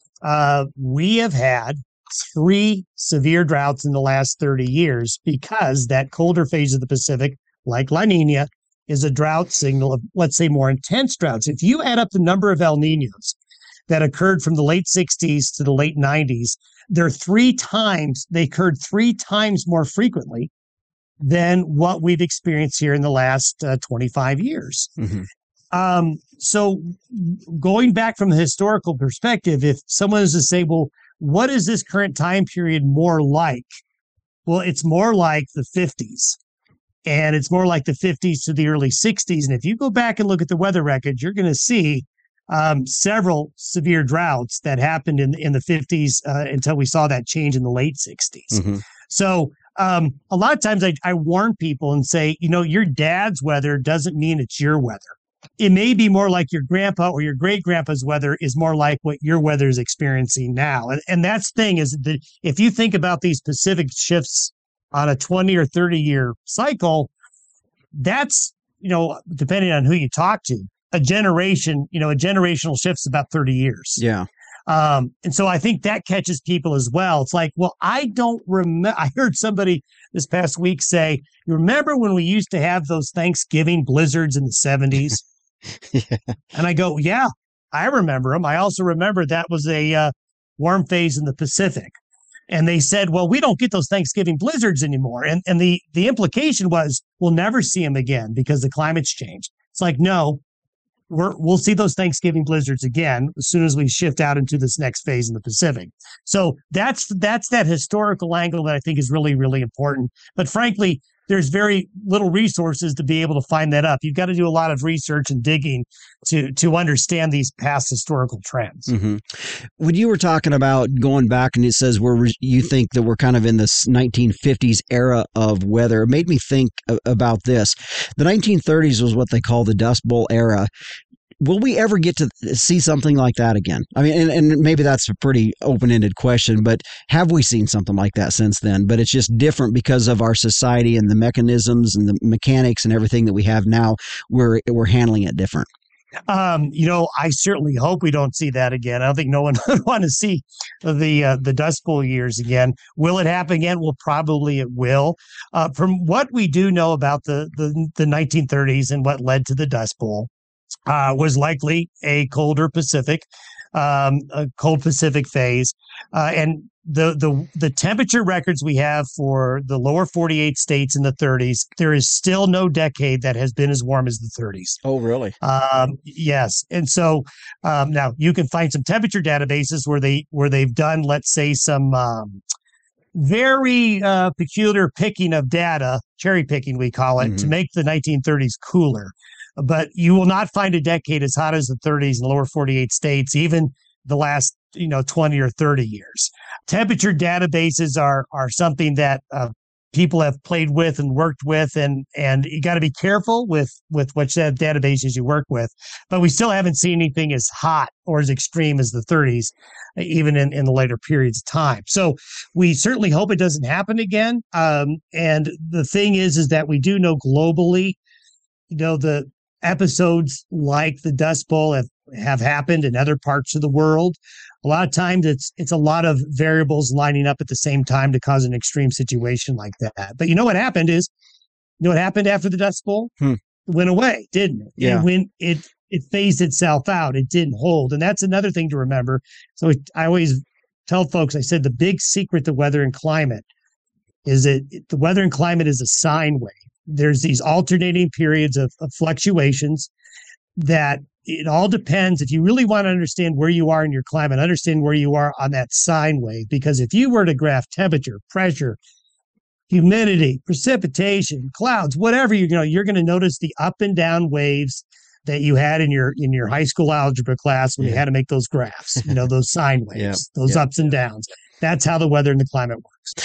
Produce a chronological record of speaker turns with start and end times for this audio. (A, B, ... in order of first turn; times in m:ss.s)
0:00.2-0:13.4 A
0:13.9-0:20.5 A
0:21.2-0:24.9 A
0:25.0-0:25.2 B
0:25.7-0:33.7 A
0:34.4-0:36.4 A
0:37.0-1:07.1 A
1:07.9-1:14.0 A
1:14.0-1:14.3 B
1:14.7-1:25.2 A
1:25.9-1:26.3 B
1:26.5-1:32.0 A
1:32.5-1:40.4 A
1:41.1-1:58.9 A
1:58.9-2:10.7 B
2:11.4-2:25.7 B
2:26.3-2:40.3 A
2:40.9-2:54.8 A
2:54.8-2:55.3 B
2:55.4-3:02.4 A
3:03.1-3:38.0 A
3:07.2-3:07.5 B
3:38.7-3:51.1 A
3:51.8-3:53.1 A
3:53.6-4:03.4 A
3:54.8-3:55.0 B
4:04.2-4:09.9 A
4:10.6-4:18.8 A
4:19.7-4:33.1 A
4:29.9-4:30.6 B